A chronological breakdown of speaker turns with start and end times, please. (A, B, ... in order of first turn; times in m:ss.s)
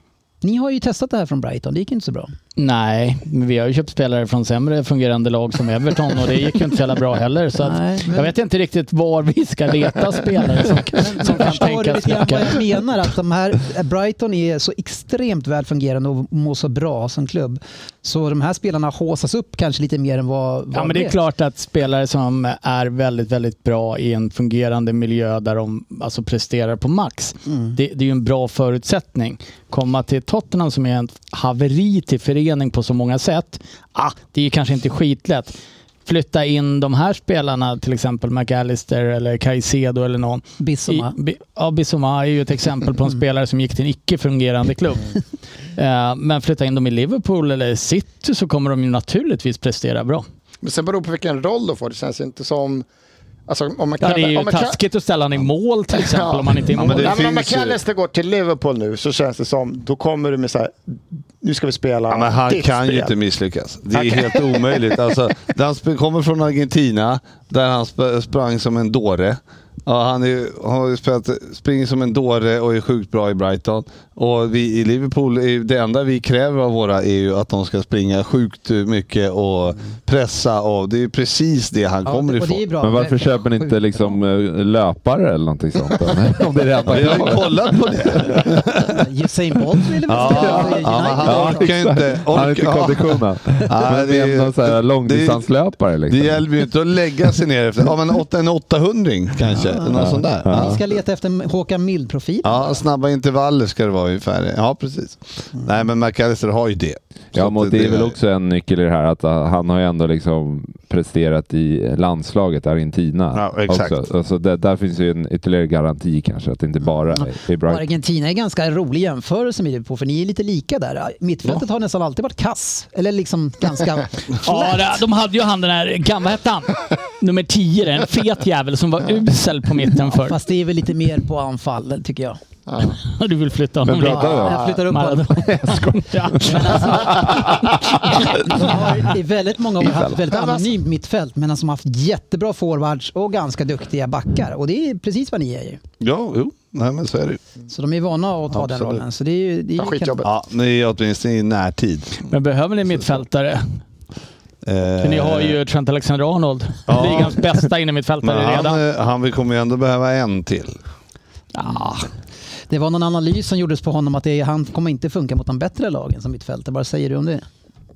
0:00.4-0:02.3 A
0:02.6-0:12.6 B
0:07.6-0:08.3 A
0:10.9-0:21.2 A
0:20.7-0:35.5 B
0:27.5-0:27.8 A
0:36.1-0:45.2 B
0:40.6-0:41.2 A
0:45.8-0:50.2 B
0:50.6-0:52.9 C
0:53.5-0:54.8 C
0:54.0-0:57.2 B
0:55.9-1:03.1 C
0:56.7-0:57.8 D
1:02.1-1:22.7 D
1:04.0-1:04.9 C
1:22.0-1:24.2 A
1:22.8-1:27.7 E
1:26.9-1:29.0 D
1:28.8-1:31.7 A
1:30.1-1:40.8 D
1:30.2-1:36.5 E
1:39.5-1:42.8 A
1:39.9-1:40.8 E
1:42.4-1:48.2 D
1:47.3-1:57.8 E
1:53.4-1:54.0 D
1:57.1-2:04.9 A
2:04.4-2:10.4 B
2:10.1-2:12.4 A
2:12.7-2:13.0 C
2:13.0-2:17.2 B
2:13.8-2:14.6 E
2:14.0-2:15.8 A
2:15.5-2:17.8 E
2:16.4-2:17.6 A
2:18.4-2:25.8 A
2:20.3-2:20.7 C
2:26.0-2:27.4 D
2:27.7-2:30.2 A
2:28.5-2:29.0 D
2:29.8-2:30.3 C
2:30.2-2:32.2 D
2:32.2-2:33.8 B
2:34.6-2:35.6 D
2:35.0-2:38.8 B
2:36.9-2:37.4 D
2:38.2-2:40.8 D
2:41.5-2:42.1 B
2:42.7-2:47.5 A